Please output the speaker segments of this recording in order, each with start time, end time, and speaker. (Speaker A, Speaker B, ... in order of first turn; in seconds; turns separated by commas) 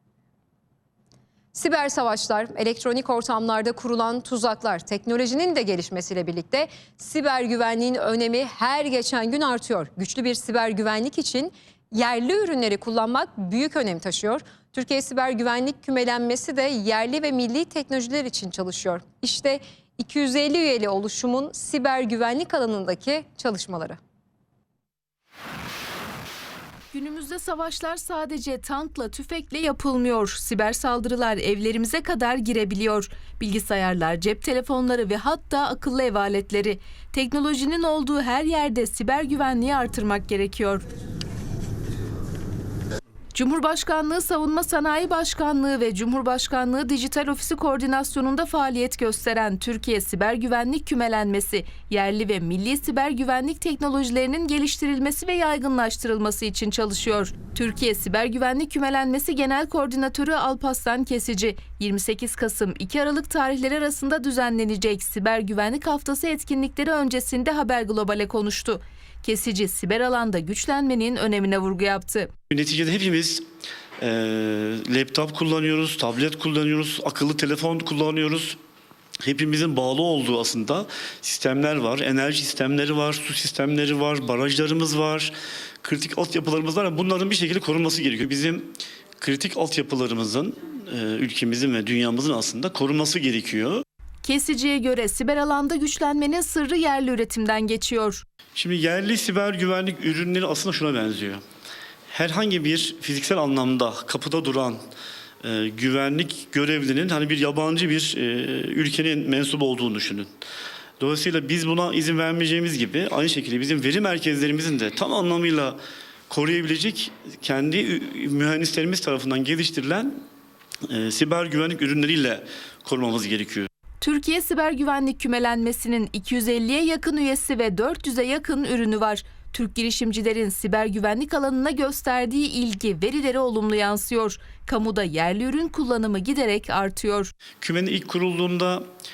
Speaker A: 1.5-24.0, Speaker B: 26.9-40.9, Speaker B: 43.3-72.3, Speaker C: 72.5-73.4, Speaker C: 74.0-78.6, Speaker C: 79.2-93.8, Speaker B: 94.2-98.2, Speaker C: 98.5-101.4, Speaker C: 102.1-104.8, Speaker C: 105.4-110.3, Speaker C: 111.0-115.8, Speaker C: 116.3-120.1, Speaker C: 120.9-123.7, Speaker B: 124.0-137.3, Speaker C: 137.6-138.8